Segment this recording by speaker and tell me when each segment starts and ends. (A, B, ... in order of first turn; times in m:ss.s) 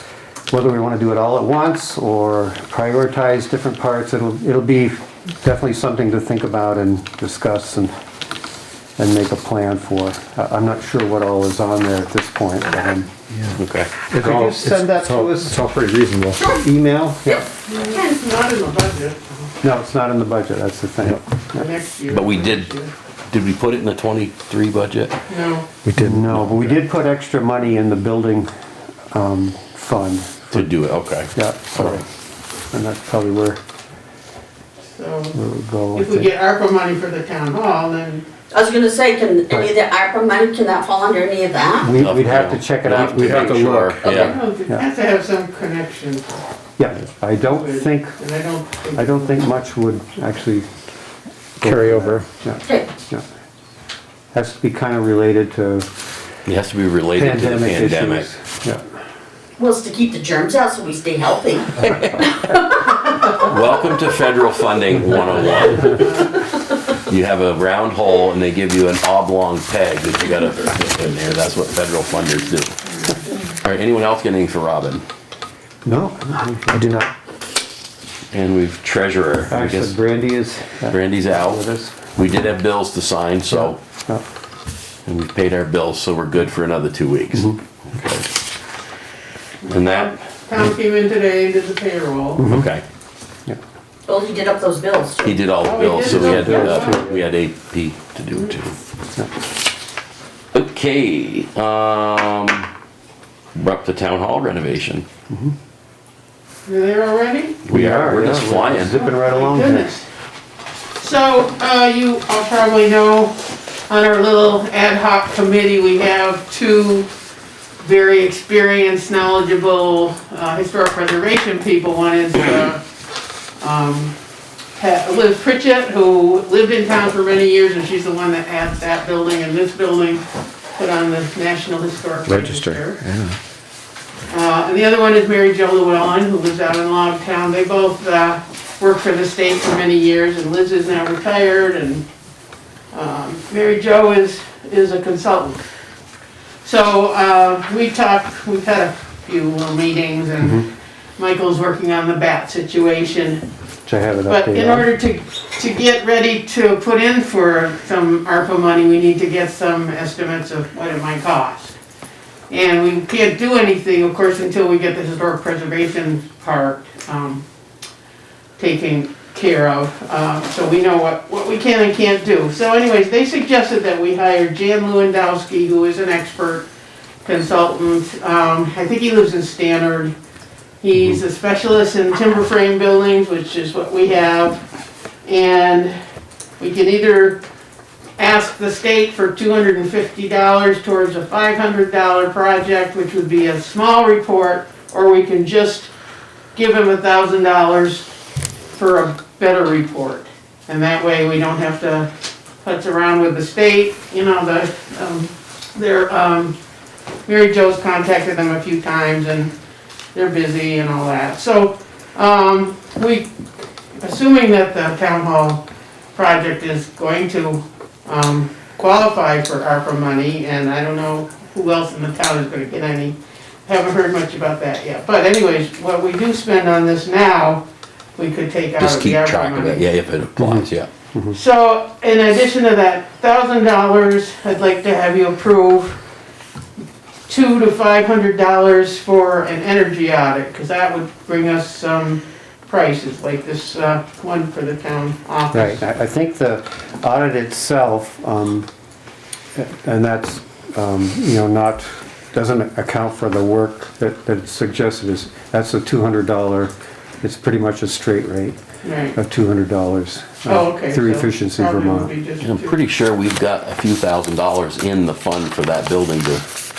0:00.5-0:07.9 A
0:09.0-0:13.1 A
0:13.3-0:16.4 B
0:13.6-0:13.9 C
0:14.2-0:15.6 A
0:16.4-0:16.7 D
0:16.6-0:17.4 A
0:17.2-0:18.2 D
0:17.7-0:19.5 E
0:19.6-0:21.7 A
0:21.5-0:22.9 E
0:22.1-0:22.7 C
0:23.3-0:25.2 C
0:25.3-0:25.7 E
0:25.9-0:26.7 B
0:26.0-0:28.5 A
0:29.1-0:30.6 A
0:30.5-0:31.3 C
0:31.3-0:32.0 A
0:32.7-0:33.6 A
0:34.9-0:35.4 E
0:35.3-0:36.3 A
0:35.9-0:38.3 E
0:38.5-0:42.0 D
0:41.8-0:44.8 A
0:42.0-0:44.4 C
0:43.1-0:43.6 B
0:44.0-0:44.4 D
0:44.2-0:46.4 E
0:46.8-0:48.1 A
0:47.4-0:49.4 E
0:49.0-0:50.7 A
0:51.6-0:53.2 A
0:51.6-0:52.2 B
0:54.3-0:55.9 A
0:56.5-0:58.3 C
0:57.1-0:58.8 A
0:59.6-1:03.4 D
1:03.4-1:06.1 C
1:05.8-1:06.2 E
1:07.0-1:12.8 C
1:13.5-1:15.0 C
1:15.8-1:17.1 A
1:18.3-1:20.0 C
1:19.5-1:22.0 A
1:20.9-1:21.6 C
1:22.2-1:23.8 C
1:23.5-1:24.2 A
1:25.1-1:28.3 C
1:27.3-1:27.6 A
1:29.6-1:32.5 E
1:29.7-1:30.1 C
1:32.4-1:32.7 A
1:32.5-1:32.8 C
1:34.1-1:35.5 D
1:35.2-1:38.8 C
1:35.6-1:37.1 E
1:36.1-1:37.2 A
1:36.2-1:36.9 D
1:40.5-1:42.7 C
1:43.6-1:45.1 C
1:46.7-1:47.6 E
1:47.6-1:49.0 C
1:47.7-1:49.9 A
1:48.9-1:50.1 E
1:51.0-1:53.4 E
1:53.9-1:57.1 E
1:57.8-2:02.8 E
2:03.6-2:04.2 E
2:04.8-2:10.2 E
2:10.8-2:13.0 E
2:12.3-2:13.4 B
2:14.3-2:22.0 E
2:22.9-2:25.6 E
2:26.6-2:33.4 E
2:30.4-2:30.7 A
2:33.9-2:34.9 A
2:34.3-2:41.8 E
2:42.5-2:47.4 E
2:48.6-2:56.7 E
2:57.2-3:00.1 E
3:00.8-3:04.6 E
3:05.3-3:06.0 E
3:06.6-3:07.4 E
3:08.2-3:15.9 E
3:16.6-3:18.1 E
3:18.8-3:22.1 E
3:22.6-3:26.6 E
3:27.3-3:29.5 E
3:30.2-3:33.3 E
3:34.0-3:47.6 E
3:48.2-3:49.8 E
3:48.8-3:50.9 C
3:50.4-3:51.4 A
3:51.3-3:56.0 E
3:57.3-4:05.8 E
4:05.5-4:08.7 A
4:09.6-4:18.6 A
4:18.8-4:19.2 E
4:19.2-4:22.1 A
4:20.4-4:22.8 E
4:22.4-4:26.4 C